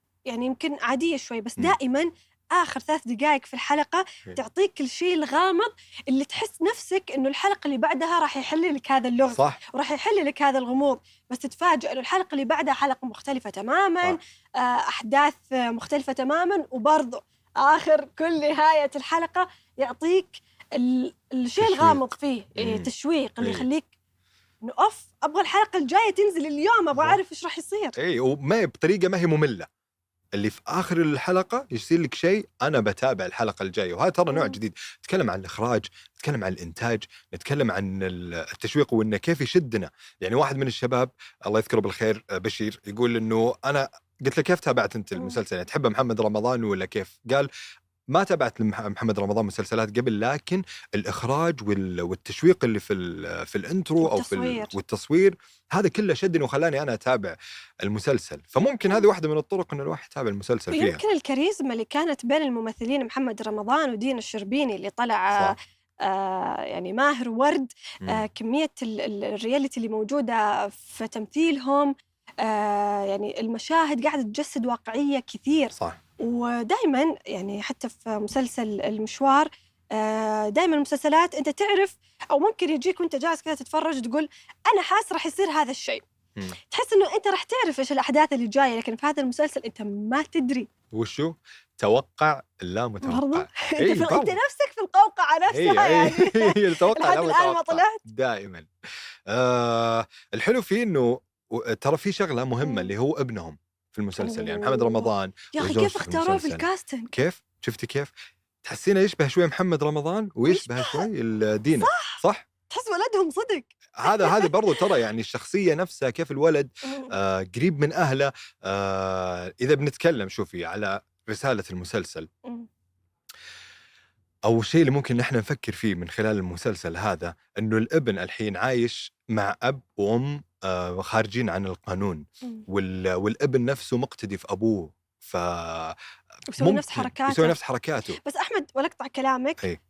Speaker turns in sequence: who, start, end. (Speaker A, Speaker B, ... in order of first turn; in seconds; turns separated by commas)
Speaker A: 0.3-23.9, Speaker B: 9.3-9.6, Speaker B: 21.6-22.0, Speaker B: 22.6-22.9, Speaker B: 23.4-23.7, Speaker A: 24.6-27.9, Speaker B: 27.9-29.7, Speaker B: 30.4-47.5, Speaker A: 34.3-34.6, Speaker A: 45.1-45.4, Speaker B: 48.1-61.0, Speaker A: 54.0-54.7, Speaker A: 60.7-86.0, Speaker A: 86.7-90.7, Speaker B: 90.9-94.3, Speaker A: 93.0-98.0, Speaker B: 95.5-98.7, Speaker B: 99.3-108.1, Speaker A: 102.6-102.9, Speaker A: 104.2-107.2, Speaker B: 108.6-112.5, Speaker A: 110.5-111.1, Speaker A: 111.8-114.9, Speaker B: 114.0-122.3, Speaker A: 116.8-117.1, Speaker B: 124.5-136.0, Speaker A: 136.5-137.6, Speaker B: 136.6-138.2, Speaker A: 138.2-139.6